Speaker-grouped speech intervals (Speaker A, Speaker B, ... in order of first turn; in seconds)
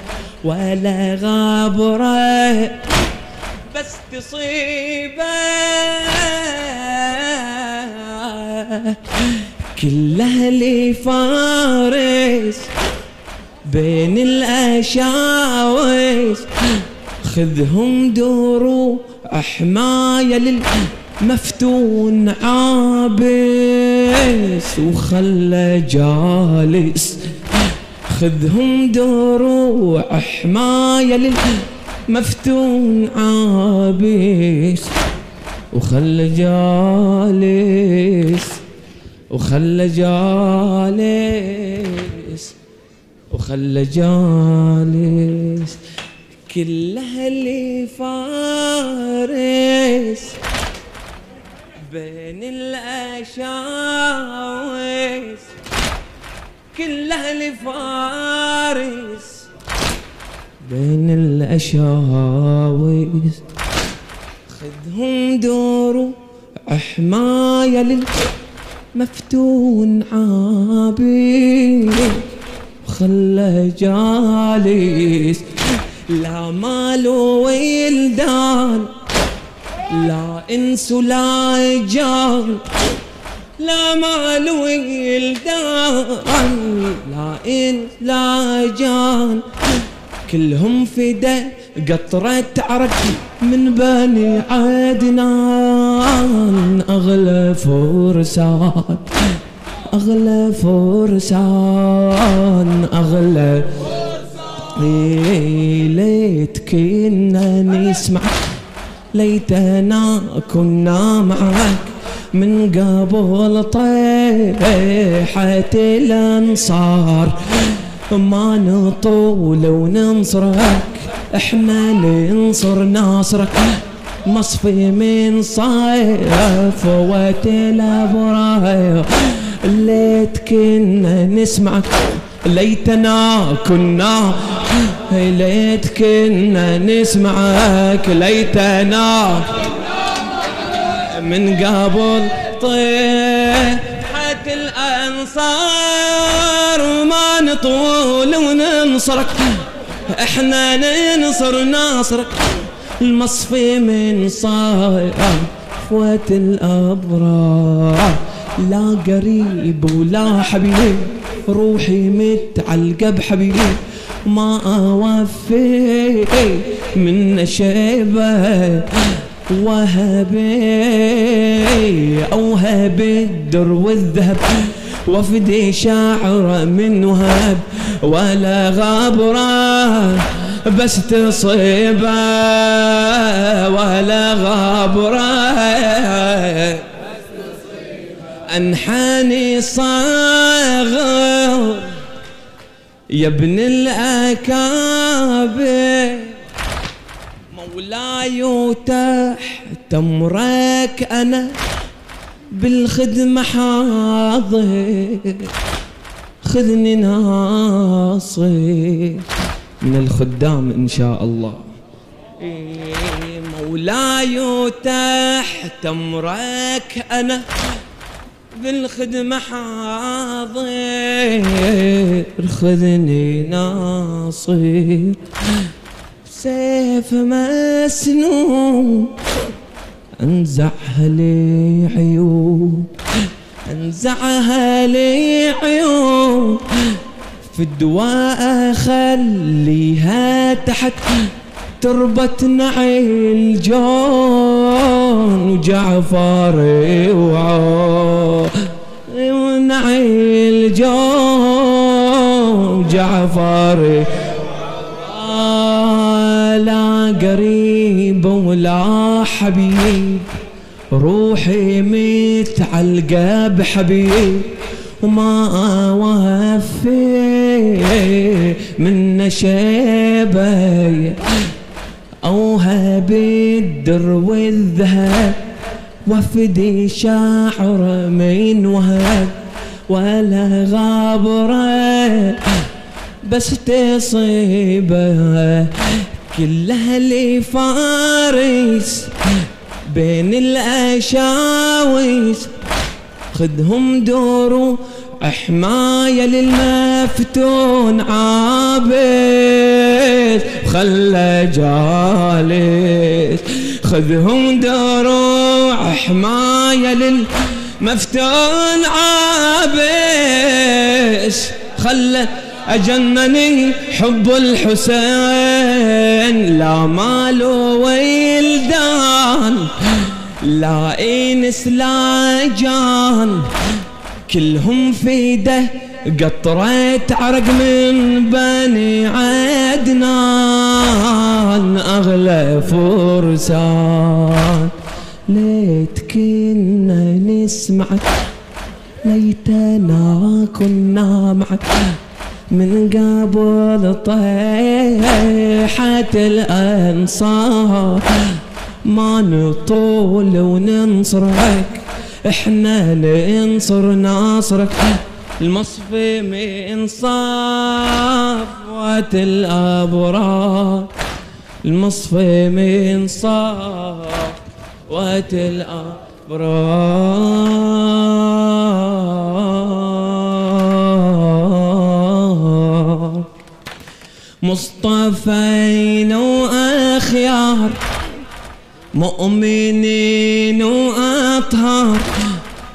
Speaker A: 0.4-2.8, 3.7-12.7, 13.7-35.0, 35.7-38.6, 39.3-42.5, 43.3-45.8, 46.5-50.4, 51.8-55.5, 56.7-59.5, 60.6-63.4, 64.5-66.2, 66.7-68.2, 68.9-72.3, 72.8-78.9, 79.9-82.7, 83.6-89.5, 90.3-99.4, 99.9-104.0, 104.6-108.5, 109.1-139.6, 140.8-186.9, 188.5-192.0, 193.1-196.4, 197.5-201.6, 202.5-205.5, 206.4-209.3, 209.8-211.7, 212.4-217.5, 218.5-225.7, 226.2-229.2, 230.2-232.9, 233.7-260.3, 260.9-271.5, 272.2-275.4, 276.1-279.4, 279.9-282.7, 283.2-292.5, 293.3-323.5, 324.3-334.7, 335.3-338.1, 339.0-342.0, 342.5-360.9, 361.6-373.3, 374.4-377.8, 378.9-382.4